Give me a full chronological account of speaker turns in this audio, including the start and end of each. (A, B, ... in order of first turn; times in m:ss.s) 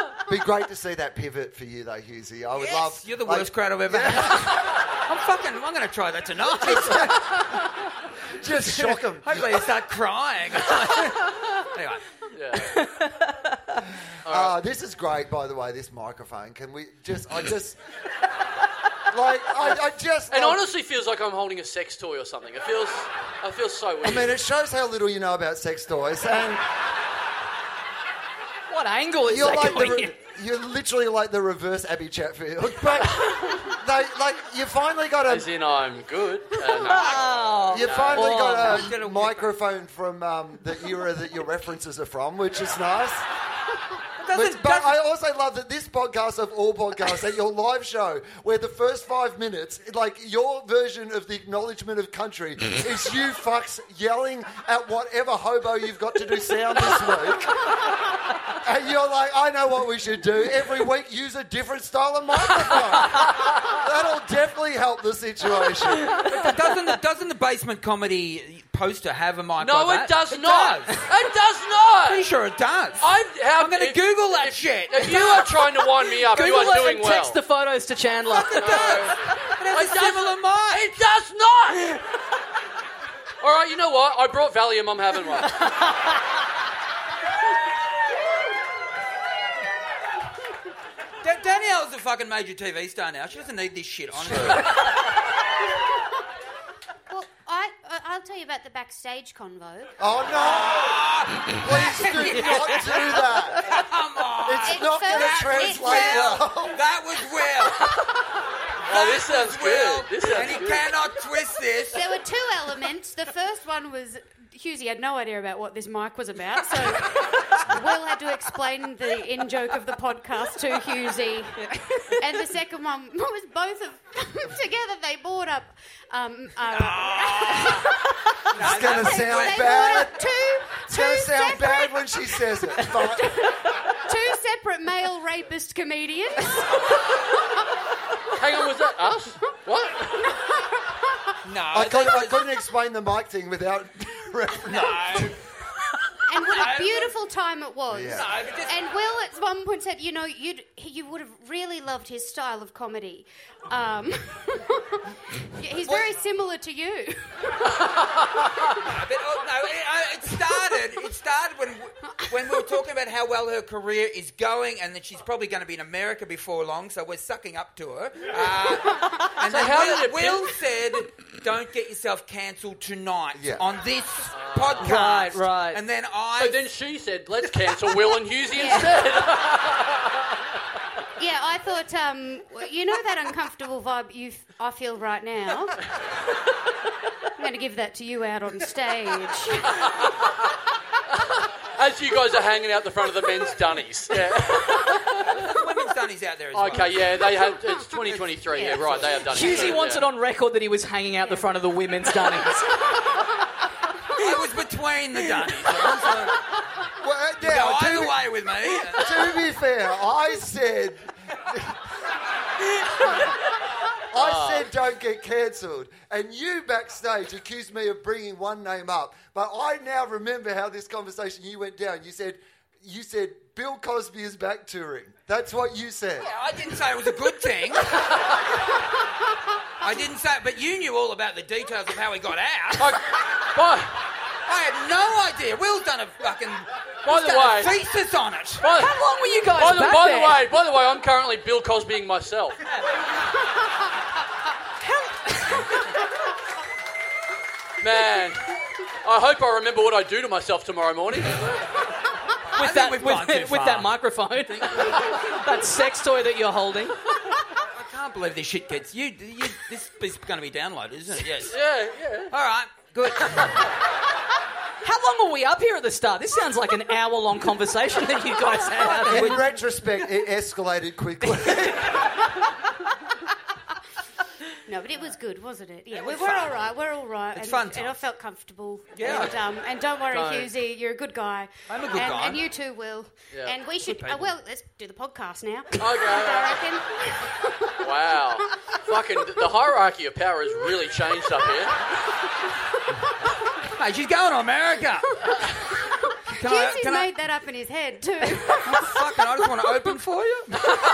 0:00.3-0:04.5 A
0:02.6-0:07.5 B
0:06.6-0:07.3 A
0:08.4-0:09.7 A
0:08.7-0:12.0 B
0:12.3-0:13.0 C
0:12.7-0:13.3 D
0:14.2-0:17.8 A
0:14.2-0:14.6 C
0:19.1-0:20.6 A
0:19.6-0:24.3 C
0:24.0-0:26.7 A
0:28.7-0:30.1 D
0:29.3-0:35.5 A
0:33.0-0:33.7 C
0:35.3-0:38.4 C
0:36.8-0:38.8 D
0:37.7-0:43.2 A
0:38.4-0:39.5 B
0:44.2-0:45.0 B
0:44.3-0:57.7 A
0:58.6-1:06.2 A
1:06.2-1:11.0 B
1:09.6-1:12.2 C
1:12.0-1:15.5 B
1:13.0-1:17.4 C
1:16.2-1:18.9 D
1:18.3-1:21.0 B
1:18.6-1:22.0 C
1:23.4-1:25.8 C
1:31.2-1:34.8 B
1:34.1-1:34.7 A
1:37.1-1:39.9 E
1:40.0-1:43.8 A
1:40.4-1:47.9 B
1:44.4-1:46.8 A
1:44.7-1:46.4 E
1:48.8-1:52.1 B
1:48.9-1:50.9 C
1:51.9-2:08.0 E
2:01.9-2:02.2 D
2:06.7-2:07.9 B
2:08.5-2:10.0 B
2:08.6-2:10.2 A
2:08.6-2:12.0 E
2:10.9-2:13.4 A
2:12.8-2:16.8 E
2:18.4-2:20.4 C
2:21.4-2:22.4 B
2:21.7-2:25.4 A
2:24.7-2:25.4 B
2:26.3-2:37.6 E
2:26.5-2:27.1 B
2:27.9-2:28.3 A
2:28.1-2:28.8 B
2:35.8-2:36.1 A
2:38.8-2:56.6 B
2:49.4-2:50.5 C
2:53.4-2:53.6 A
2:54.3-2:55.0 C
2:54.8-2:55.8 D
2:56.4-3:00.4 C
2:58.5-2:59.1 E
3:01.2-3:05.8 E
3:07.4-3:09.8 E
3:09.7-3:10.5 C
3:11.4-3:15.4 C
3:15.3-3:17.2 B
3:16.5-3:20.1 C
3:18.1-3:19.8 B
3:18.5-3:18.9 E
3:19.3-3:22.7 D
3:19.4-3:19.7 E
3:24.2-3:26.4 B
3:27.0-3:28.3 A
3:27.4-3:29.1 B
3:28.9-3:31.8 A
3:34.1-3:46.3 A
3:34.2-3:34.7 C
3:46.2-3:47.9 B
3:49.8-3:53.0 B
3:52.8-3:54.0 C
3:54.5-3:58.7 B
3:57.0-3:57.7 C
3:58.6-3:59.0 C
3:58.7-4:00.4 D
3:59.5-4:02.6 C
4:05.0-4:05.7 D
4:07.8-4:11.6 C
4:12.5-4:13.9 B
4:12.6-4:17.0 D
4:17.6-4:21.6 B
4:21.5-4:22.3 C
4:22.3-4:23.6 B
4:24.8-4:29.4 D
4:29.0-4:29.4 B
4:29.0-4:32.0 A
4:34.7-4:47.5 E
4:35.9-4:36.7 B
4:37.3-4:38.0 B
4:39.0-4:39.4 B
4:40.1-4:40.5 C
4:41.7-4:42.4 B
4:43.8-4:44.3 B
4:45.8-4:46.6 C
4:47.8-4:52.0 C
4:53.8-4:55.1 B
4:56.3-4:57.1 B
4:56.4-4:59.0 E
4:58.4-5:00.7 B